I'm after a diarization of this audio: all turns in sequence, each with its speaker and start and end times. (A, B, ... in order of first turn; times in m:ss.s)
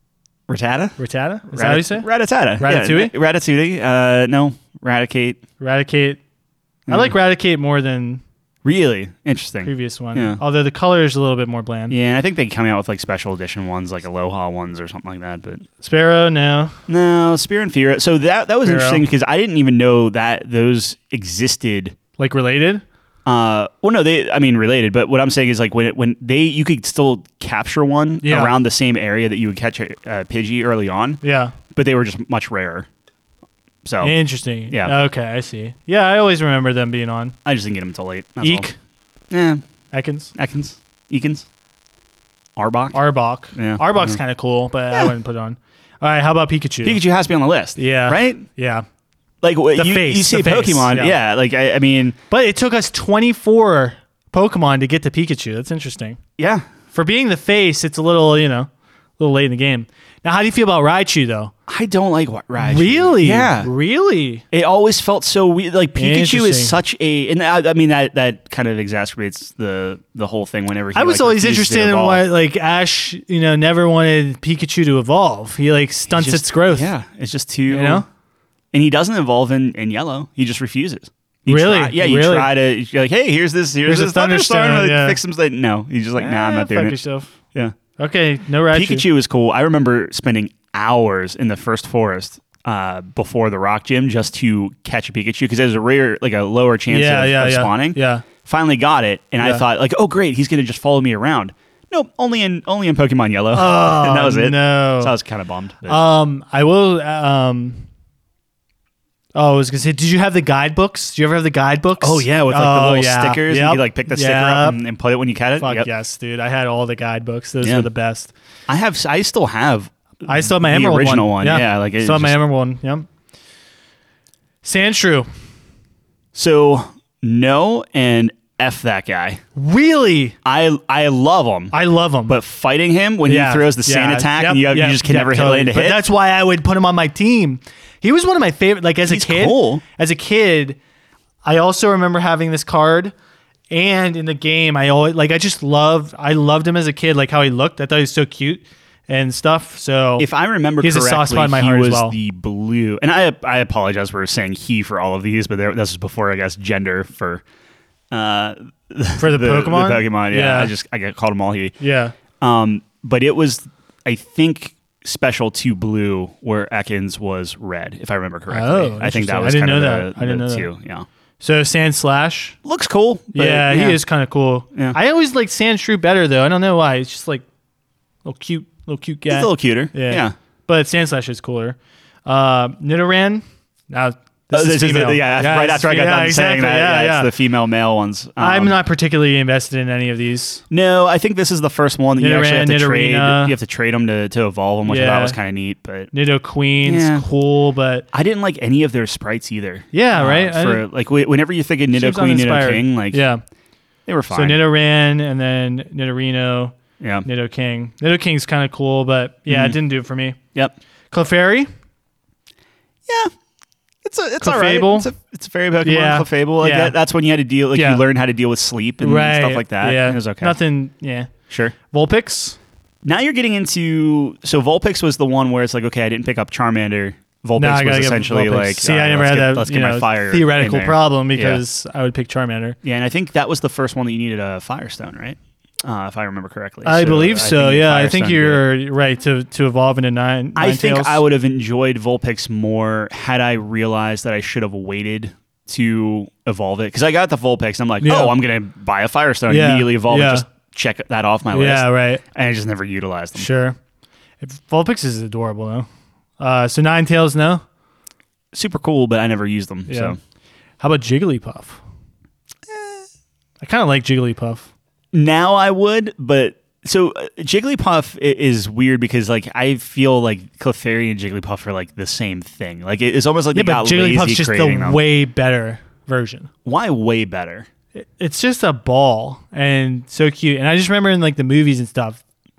0:00.5-0:01.0 A
0:01.0-0:02.1 B
0:01.5-0:05.4 A
0:02.6-0:03.2 B
0:05.6-0:06.2 B
0:06.9-0:07.1 A
0:06.9-0:08.2 B
0:08.6-0:10.4 A
0:09.6-0:12.0 B
0:11.9-0:15.7 A
0:15.8-0:16.8 B
0:16.9-0:22.0 A
0:18.6-0:19.0 B
0:22.2-0:22.8 B
0:23.3-0:31.2 A
0:28.2-0:28.6 B
0:31.2-0:31.6 B
0:31.7-0:32.9 A
0:33.8-0:34.2 A
0:34.0-0:37.4 B
0:34.7-0:35.0 A
0:37.4-0:38.7 A
0:38.4-0:38.8 B
0:39.3-0:39.6 A
0:39.9-0:40.3 B
0:40.4-0:41.5 A
0:42.6-0:43.0 A
0:42.9-0:47.0 B
0:43.6-0:44.2 A
0:46.8-0:48.4 A
0:47.8-0:48.8 B
0:49.4-0:52.2 A
0:49.8-0:51.2 B
0:52.3-0:56.2 B
0:56.4-0:56.6 A
0:56.9-1:01.5 B
1:01.7-1:03.7 A
1:02.6-1:04.4 B
1:04.5-1:12.2 A
1:06.0-1:06.8 B
1:11.0-1:16.9 B
1:16.1-1:18.0 A
1:17.7-1:18.1 B
1:18.7-1:27.0 A
1:21.5-1:22.5 B
1:23.8-1:25.2 B
1:26.2-1:27.3 B
1:28.0-1:29.1 B
1:28.7-1:46.0 A
1:36.9-1:38.2 B
1:43.5-1:45.1 B
1:45.9-1:47.8 B
1:49.4-1:54.8 B
1:52.0-1:55.9 A
1:55.6-1:58.3 B
1:57.6-1:57.9 A
1:58.7-2:02.4 A
2:00.3-2:03.1 B
2:04.6-2:05.3 B
2:06.3-2:09.4 A
2:09.6-2:10.4 B
2:10.4-2:11.7 A
2:11.7-2:12.4 B
2:12.3-2:16.0 A
2:13.2-2:20.8 B
2:19.0-2:19.8 A
2:21.4-2:23.1 B
2:23.7-2:30.3 B
2:30.2-2:37.4 A
2:30.8-2:32.2 B
2:38.1-2:41.8 A
2:39.2-2:40.7 B
2:41.8-2:42.2 B
2:42.4-2:51.1 A
2:48.5-2:50.7 B
2:51.4-2:52.6 B
2:52.6-2:54.0 A
2:53.4-2:57.4 B
2:58.2-3:07.3 B
2:59.3-3:00.4 A
3:04.5-3:08.8 A
3:08.4-3:10.6 B
3:10.7-3:16.1 A
3:12.2-3:13.6 B
3:14.8-3:15.4 B
3:16.1-3:18.0 B
3:16.8-3:17.2 A
3:18.1-3:23.2 A
3:19.9-3:20.8 B
3:21.9-3:23.4 B
3:24.1-3:24.6 A
3:24.3-3:30.4 B
3:27.0-3:27.3 A
3:29.5-3:29.8 A
3:31.1-3:31.7 B
3:33.1-3:33.3 A
3:34.0-3:40.6 A
3:34.4-3:35.1 B
3:35.8-3:37.0 B
3:37.7-3:38.0 B
3:39.0-3:41.3 B
3:41.5-3:41.8 A
3:41.9-3:42.6 B
3:43.0-3:51.6 A
3:47.6-3:52.8 B
3:52.8-3:58.6 A
3:56.8-4:01.2 B
4:00.6-4:13.5 A
4:08.0-4:08.4 B
4:09.5-4:10.5 B
4:11.5-4:12.2 B
4:13.4-4:13.8 B
4:14.4-4:15.9 B
4:16.4-4:17.6 B
4:18.5-4:20.2 A
4:19.9-4:20.2 B
4:20.8-4:21.8 B
4:22.7-4:23.0 A
4:23.6-4:24.7 B
4:25.1-4:35.0 A
4:33.5-4:36.5 B
4:36.6-4:37.7 A
4:38.0-4:42.2 B